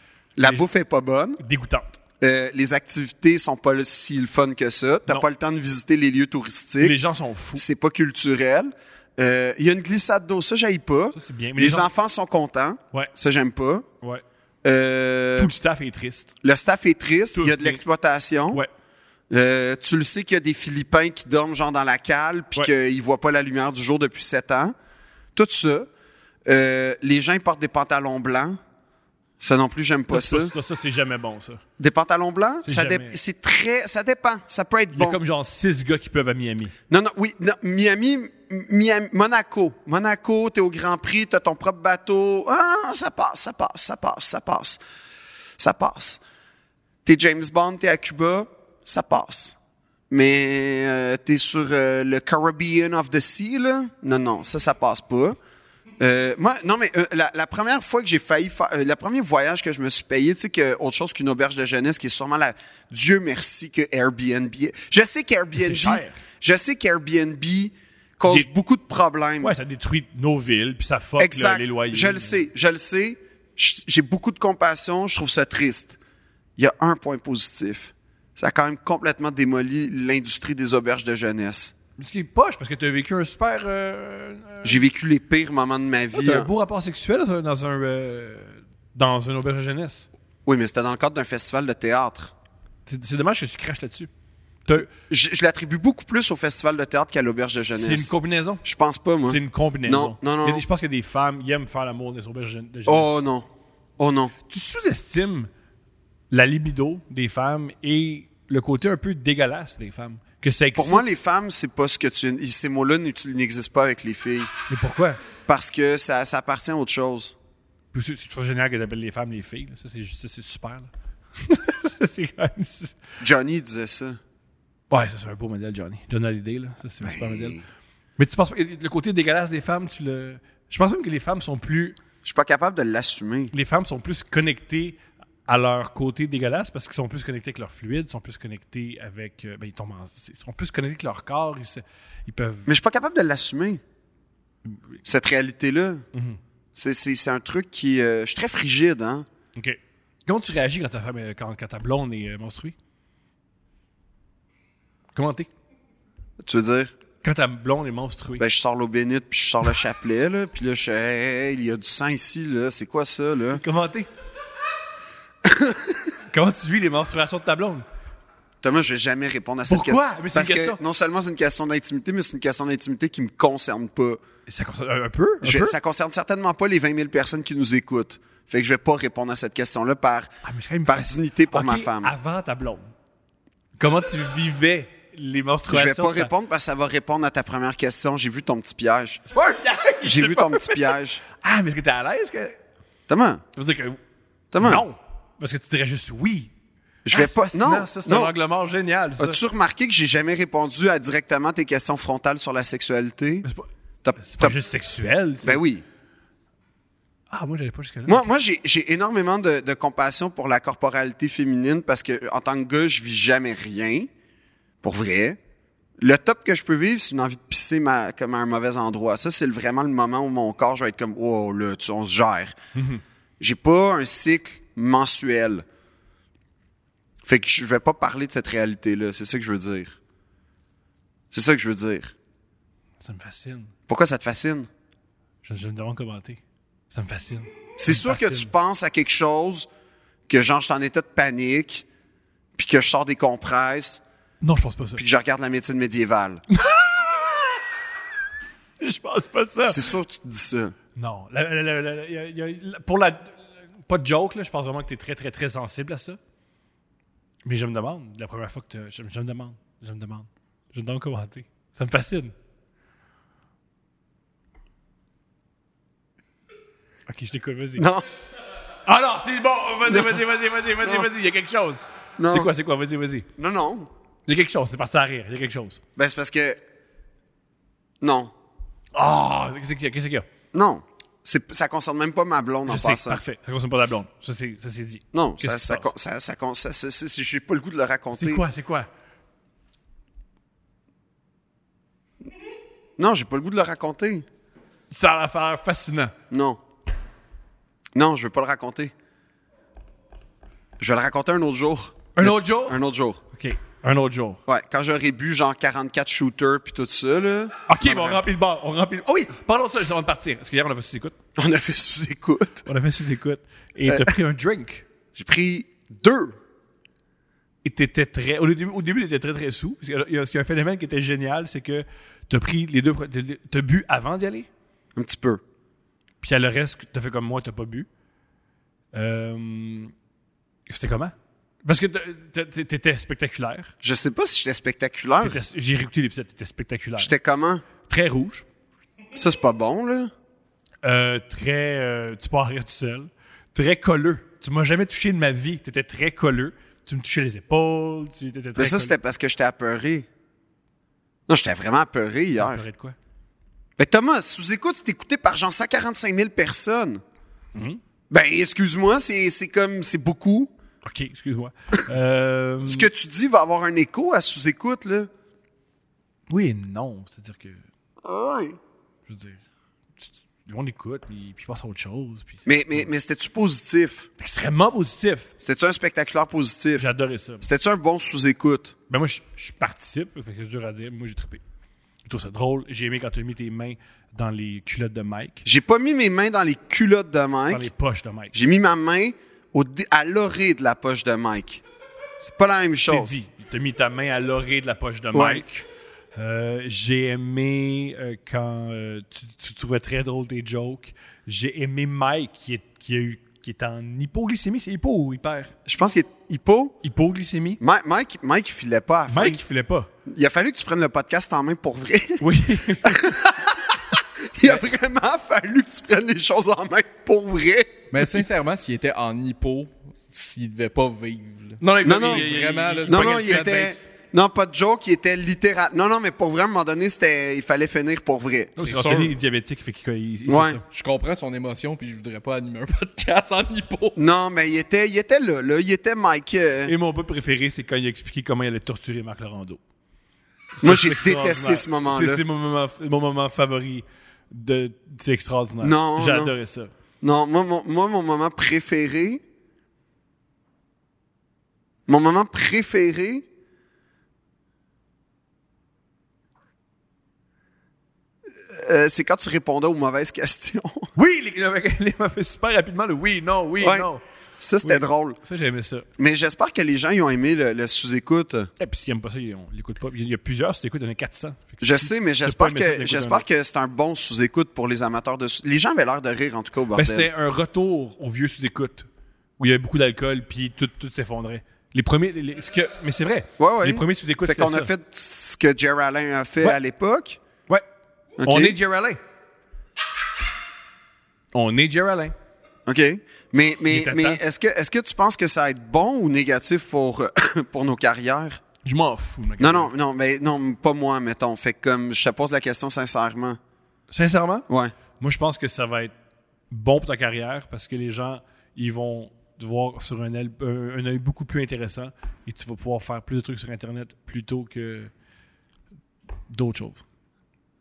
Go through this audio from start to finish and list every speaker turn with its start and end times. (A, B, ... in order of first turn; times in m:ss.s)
0:00.4-0:01.4 A
0:00.4-0:00.7 B
0:01.4-0:02.0 B
0:02.2-0:07.0 A
0:06.8-0:07.6 B
0:07.6-0:13.9 A
0:11.1-0:11.9 B
0:14.6-0:15.5 A
0:15.4-0:16.3 B
0:16.4-0:18.6 A
0:17.3-0:17.8 B
0:19.3-0:24.7 A
0:25.3-0:25.9 A
0:26.4-0:28.6 A
0:29.4-0:30.5 A
0:30.1-0:31.6 B
0:31.8-0:35.2 A
0:32.6-0:33.2 B
0:34.9-0:36.7 B
0:36.9-0:44.8 A
0:45.6-0:46.2 A
0:47.0-0:49.6 A
0:50.1-0:55.4 A
0:56.0-1:09.6 A
1:05.5-1:06.2 B
1:09.4-1:12.4 B
1:11.2-1:16.0 A
1:16.6-1:21.7 A
1:22.0-1:24.8 B
1:24.6-1:26.5 A
1:26.2-1:30.1 B
1:30.4-1:32.3 A
1:32.8-1:34.1 B
1:34.9-1:38.1 A
1:37.6-1:38.6 B
1:38.6-1:40.6 A
1:39.2-1:43.2 B
1:42.9-1:44.3 A
1:44.5-1:45.5 B
1:46.3-1:51.0 B
1:50.7-1:54.5 A
1:54.7-1:55.2 B
1:55.5-1:57.3 A
1:57.9-2:03.0 B
2:03.2-2:04.2 A
2:04.9-2:07.6 B
2:07.0-2:07.6 A
2:08.2-2:12.0 B
2:12.2-2:13.5 A
2:13.5-2:22.8 B
2:22.6-2:23.8 A
2:24.6-2:25.0 B
2:25.0-2:26.0 A
2:26.1-2:26.4 B
2:26.7-2:29.3 A
2:29.6-2:32.7 B
2:35.1-2:35.5 B
2:36.4-2:36.9 A
2:37.2-2:38.4 B
2:38.4-2:43.6 A
2:43.5-2:44.1 B
2:45.4-2:46.0 A
2:46.3-2:47.8 B
2:48.6-2:54.2 A
2:49.7-2:50.8 B
2:54.5-2:55.8 B
2:55.4-3:00.3 A
3:00.4-3:02.9 B
3:00.8-3:02.1 A
3:03.8-3:06.3 B
3:05.7-3:09.2 A
3:09.3-3:12.6 B
3:10.0-3:11.2 A
3:13.1-3:13.4 A
3:13.5-3:14.0 B
3:14.5-3:14.8 A
3:14.6-3:16.5 B
3:17.0-3:18.3 A
3:17.1-3:19.4 B
3:19.2-3:23.5 A
3:23.4-3:25.6 B
3:24.0-3:24.6 A
3:25.4-3:25.8 A
3:27.3-3:28.3 B
3:28.1-3:34.1 A
3:34.8-3:35.4 A
3:36.0-3:42.6 A
3:42.7-3:43.0 B
3:43.4-3:45.6 A
3:47.2-3:50.0 A
3:51.3-3:52.1 A
3:53.0-3:53.7 B
3:53.9-3:54.7 A
3:55.4-3:58.5 B
3:57.8-3:59.7 A
4:00.3-4:01.8 A
4:02.6-4:04.0 A
4:04.4-4:05.1 B
4:05.0-4:06.4 A
4:06.5-4:07.6 B
4:08.8-4:09.9 B
4:09.7-4:10.7 A
4:11.0-4:16.2 B
4:17.4-4:22.3 B
4:27.1-4:27.8 B
4:27.8-4:28.1 A
4:28.8-4:33.3 B
4:29.9-4:30.2 A
4:30.8-4:31.1 A
4:32.2-4:32.5 A
4:33.4-4:33.9 A
4:34.3-4:35.8 B
4:36.0-4:36.6 A
4:38.0-4:38.3 A
4:38.9-4:40.2 B
4:40.5-4:43.2 A
4:42.7-4:45.9 B
4:45.1-4:48.4 A
4:48.1-4:48.9 B
4:53.0-4:54.2 A
4:54.9-4:56.1 B
4:56.3-4:56.6 A
4:57.9-4:58.9 A
5:00.8-5:03.2 A
5:02.2-5:02.8 B
5:03.3-5:04.4 B
5:04.5-5:08.2 A
5:07.7-5:11.1 B
5:11.4-5:12.6 A
5:12.6-5:14.8 B
5:13.9-5:14.2 A
5:15.1-5:16.4 A
5:17.6-5:24.5 B
5:24.9-5:25.4 A
5:26.2-5:27.9 B
5:28.9-5:29.9 B
5:30.7-5:33.7 B
5:33.8-5:35.4 A
5:35.2-5:37.1 B
5:37.0-5:37.6 A
5:37.8-5:38.4 B
5:39.1-5:40.1 A
5:40.8-5:48.9 B
5:48.6-5:50.1 A
5:51.3-5:52.6 A
5:52.4-5:53.0 B
5:53.8-5:57.0 A
5:57.5-5:57.8 B
5:58.1-6:00.5 A
6:00.8-6:02.9 B
6:02.6-6:05.1 A
6:06.3-6:07.6 B
6:08.0-6:08.6 A
6:09.1-6:09.4 B
6:10.0-6:12.9 B
6:12.4-6:14.1 A
6:14.2-6:15.3 B
6:15.4-6:16.9 A
6:16.8-6:17.4 B
6:17.4-6:18.7 A
6:18.9-6:21.4 B
6:22.0-6:25.4 B
6:25.4-6:27.7 A
6:27.5-6:28.3 B
6:28.3-6:31.6 A
6:32.2-6:33.2 A
6:32.8-6:45.5 B
6:35.1-6:35.4 A
6:45.6-6:46.8 A
6:46.8-6:47.6 B
6:47.6-6:49.4 A
6:49.1-6:49.9 B
6:50.0-6:52.3 A
6:52.2-6:53.4 B
6:52.8-6:57.9 A
6:57.9-7:03.7 C
7:01.6-7:03.8 B
7:01.8-7:02.3 A
7:02.9-7:08.6 A
7:08.6-7:09.1 C
7:08.6-7:10.6 B
7:10.3-7:10.6 A
7:10.7-7:14.0 C
7:14.0-7:16.7 A
7:16.6-7:19.6 B
7:20.6-7:26.7 B
7:20.6-7:22.2 A
7:25.6-7:26.3 A
7:27.0-7:29.2 A
7:31.9-7:33.2 A
7:38.5-7:40.9 A
7:40.9-7:44.0 B
7:43.6-7:43.8 A
7:44.4-7:45.2 A
7:44.6-7:45.8 B
7:46.0-7:48.5 A
7:48.6-7:53.2 B
7:51.6-7:57.1 A
7:56.7-7:58.9 B
7:59.4-8:04.7 B
8:03.4-8:07.2 A
8:08.2-8:08.6 A
8:08.2-8:09.0 B
8:11.3-8:12.1 B
8:12.7-8:18.4 A
8:13.7-8:14.2 B
8:18.6-8:19.7 B
8:19.4-8:23.4 A
8:23.9-8:24.4 B
8:24.5-8:24.7 A
8:25.0-8:25.9 B
8:26.5-8:34.9 B
8:36.3-8:36.8 B